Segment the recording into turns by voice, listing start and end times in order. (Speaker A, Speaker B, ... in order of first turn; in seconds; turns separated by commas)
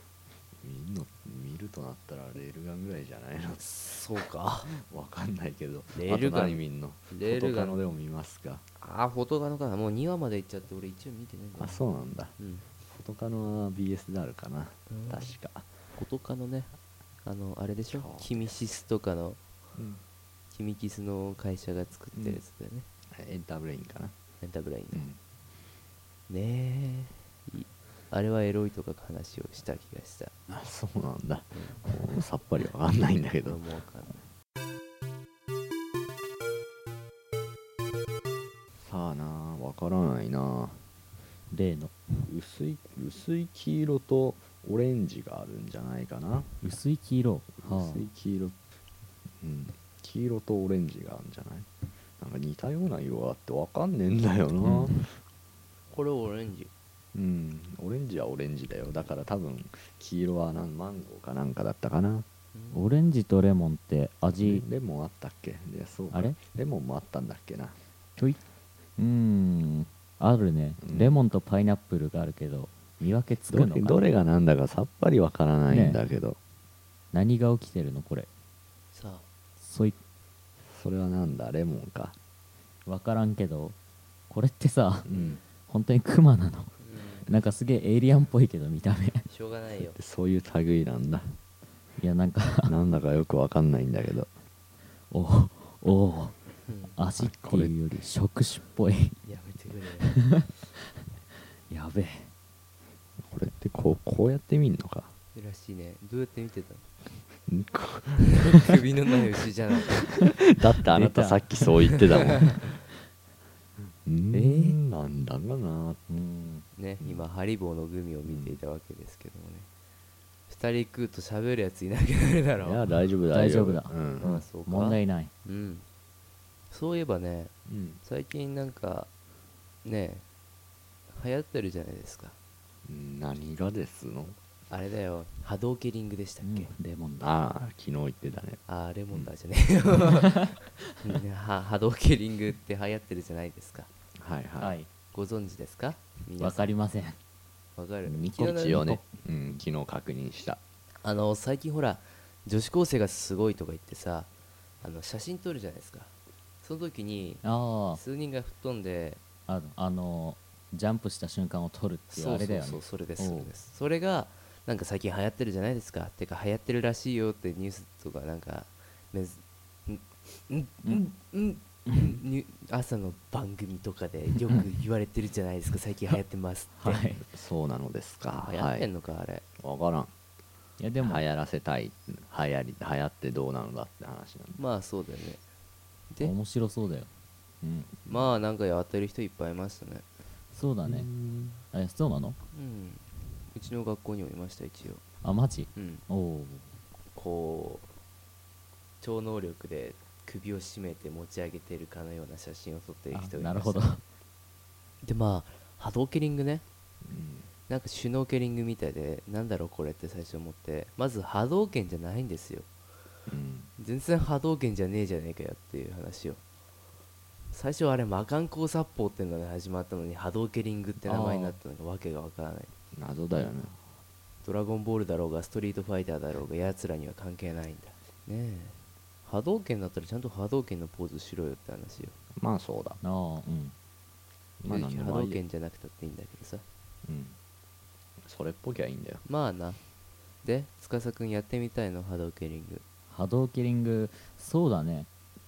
Speaker A: 0.6-4.0, Speaker B: 3.6-4.7, Speaker A: 4.6-8.6, Speaker B: 5.9-7.8, Speaker B: 8.8-11.8, Speaker A: 11.6-12.3, Speaker B: 12.4-12.7, Speaker A: 12.8-15.7, Speaker B: 14.9-15.3, Speaker B: 15.9-19.4, Speaker A: 17.9-18.5, Speaker A: 19.7-20.0, Speaker B: 20.5-22.9, Speaker A: 22.1-22.4, Speaker A: 23.1-24.1, Speaker B: 24.4-25.0, Speaker A: 24.9-25.2, Speaker B: 26.3-30.3, Speaker A: 30.5-33.6, Speaker B: 31.5-31.8, Speaker B: 33.4-34.2, Speaker A: 38.8-40.8, Speaker C: 41.5-41.9, Speaker A: 42.2-46.8, Speaker C: 46.6-48.1, Speaker A: 47.6-48.5, Speaker A: 49.4-51.7, Speaker A: 52.2-55.1, Speaker C: 54.6-55.0, Speaker B: 55.9-56.7, Speaker A: 57.1-62.2, Speaker B: 62.5-62.8, Speaker C: 62.7-64.6, Speaker A: 64.3-67.8, Speaker C: 66.1-66.4, Speaker C: 69.0-74.1, Speaker A: 70.8-71.2, Speaker A: 73.5-76.4, Speaker C: 75.7-76.0, Speaker C: 77.1-78.3, Speaker B: 78.9-79.3, Speaker C: 79.6-80.0, Speaker A: 80.7-82.1, Speaker C: 82.8-83.7, Speaker C: 84.3-85.0, Speaker A: 85.0-85.4, Speaker B: 85.1-85.4, Speaker C: 85.7-89.2, Speaker B: 86.8-87.3, Speaker B: 89.3-90.0, Speaker A: 89.8-91.3, Speaker C: 92.0-92.8, Speaker A: 92.7-94.3, Speaker C: 95.1-99.2, Speaker B: 96.6-97.0, Speaker A: 97.2-97.8, Speaker B: 99.2-100.2, Speaker C: 100.0-100.5, Speaker C: 101.7-102.3, Speaker A: 103.2-105.1, Speaker B: 105.3-106.9, Speaker A: 107.5-108.4, Speaker B: 108.4-110.1, Speaker C: 110.1-110.3, Speaker A: 110.2-112.6, Speaker C: 110.9-112.5, Speaker A: 114.0-116.1, Speaker C: 114.3-114.8, Speaker C: 116.1-116.6, Speaker B: 116.7-119.7, Speaker A: 117.0-117.2, Speaker A: 118.2-118.6, Speaker B: 120.5-122.9, Speaker A: 122.6-124.4, Speaker C: 123.3-124.0, Speaker B: 124.2-125.8, Speaker C: 124.5-125.3, Speaker B: 126.7-129.1, Speaker A: 127.7-128.0, Speaker B: 129.8-130.2, Speaker B: 131.1-132.3, Speaker A: 132.8-134.3, Speaker B: 134.7-136.7, Speaker C: 136.4-137.2, Speaker A: 137.2-139.3, Speaker B: 138.7-143.9, Speaker A: 144.2-144.8, Speaker C: 144.6-144.9, Speaker B: 145.1-146.7, Speaker C: 146.4-147.2, Speaker B: 147.8-148.9, Speaker C: 148.1-149.0, Speaker A: 148.3-150.6, Speaker B: 151.0-154.3, Speaker B: 154.8-159.2, Speaker C: 157.4-158.0, Speaker C: 159.5-163.5, Speaker B: 162.1-177.1, Speaker C: 171.9-172.2, Speaker C: 176.8-177.2, Speaker A: 177.3-178.9, Speaker B: 178.4-179.4, Speaker A: 179.6-180.1, Speaker C: 180.8-181.2, Speaker A: 181.0-184.6, Speaker B: 184.6-185.4, Speaker C: 186.2-187.1, Speaker C: 187.6-187.9, Speaker B: 188.1-190.1, Speaker C: 190.5-191.1, Speaker A: 190.8-191.6, Speaker C: 191.7-192.4, Speaker B: 192.5-195.0, Speaker C: 195.2-196.7, Speaker B: 195.7-196.0, Speaker B: 197.1-197.9, Speaker B: 199.0-203.9, Speaker C: 203.1-204.0, Speaker B: 205.0-206.6, Speaker A: 207.0-207.5, Speaker B: 207.7-212.7, Speaker A: 213.3-213.7, Speaker B: 213.8-216.4, Speaker B: 217.5-222.7, Speaker C: 221.0-221.6, Speaker A: 222.9-223.8, Speaker B: 224.4-232.2, Speaker A: 232.3-233.0, Speaker C: 233.0-233.7, Speaker A: 234.6-235.4, Speaker B: 234.7-236.6, Speaker A: 237.0-237.3, Speaker A: 238.2-239.2, Speaker B: 239.2-239.8, Speaker B: 240.4-242.8, Speaker C: 243.1-245.1